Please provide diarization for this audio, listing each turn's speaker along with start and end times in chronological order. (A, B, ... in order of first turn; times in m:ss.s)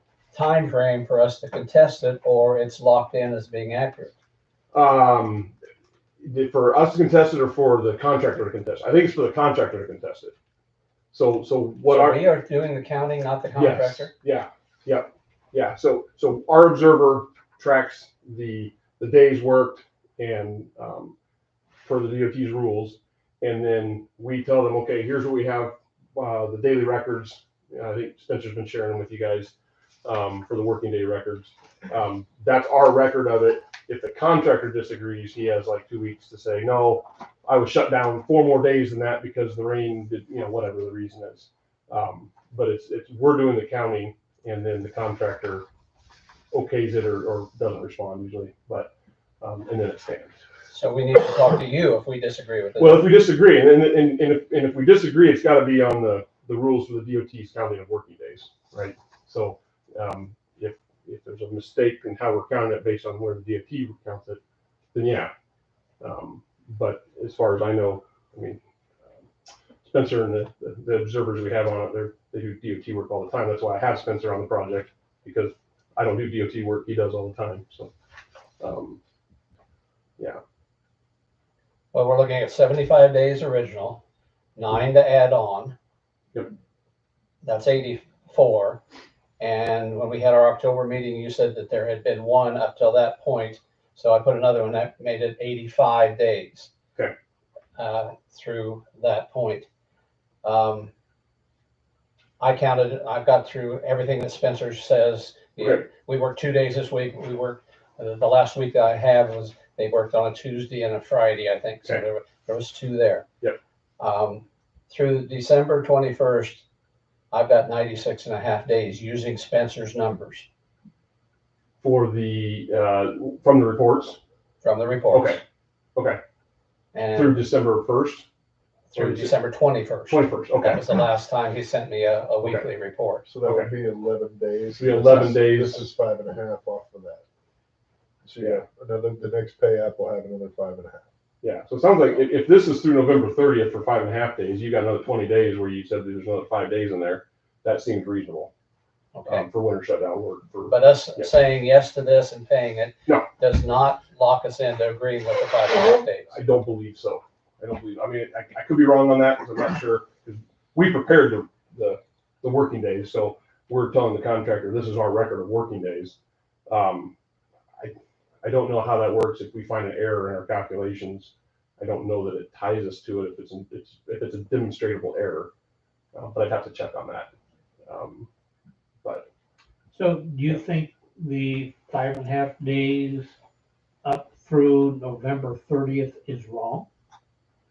0:00.3-0:04.1 A
0:04.7-0:05.5 B
0:06.2-0:10.3 B
0:11.1-0:12.2 B
0:11.9-0:14.1 A
0:13.5-0:21.1 B
0:21.8-0:45.6 B
0:46.5-0:50.4 B
0:50.7-0:53.1 A
0:52.8-1:04.4 B
1:04.9-1:05.3 B
1:06.0-1:08.6 B
1:09.8-1:17.9 B
1:18.6-1:19.0 B
1:21.9-1:24.0 A
1:24.6-1:25.8 A
1:27.4-1:28.8 A
1:29.4-1:36.7 A
1:37.8-1:39.6 A
1:40.4-1:40.9 A
1:42.4-1:53.3 A
1:45.6-1:45.8 B
1:54.0-1:56.6 A
1:57.3-2:00.5 A
2:01.8-2:04.2 B
2:04.6-2:05.4 A
2:05.1-2:05.4 B
2:06.0-2:06.2 B
2:06.9-2:07.4 A
2:07.1-2:08.2 B
2:08.9-2:13.2 A
2:08.9-2:09.4 B
2:10.1-2:11.0 B
2:12.4-2:12.7 B
2:13.2-2:17.2 C
2:13.4-2:13.7 B
2:14.8-2:15.9 B
2:18.2-2:21.1 C
2:21.4-2:28.5 B
2:29.1-2:29.5 A
2:29.2-2:31.3 B
2:30.7-2:36.3 A
2:35.7-2:46.2 B
2:46.7-2:47.1 B
2:47.8-2:55.5 B
2:56.1-2:57.3 B
2:57.8-2:58.3 B
2:59.9-3:03.3 D
3:04.0-3:06.9 D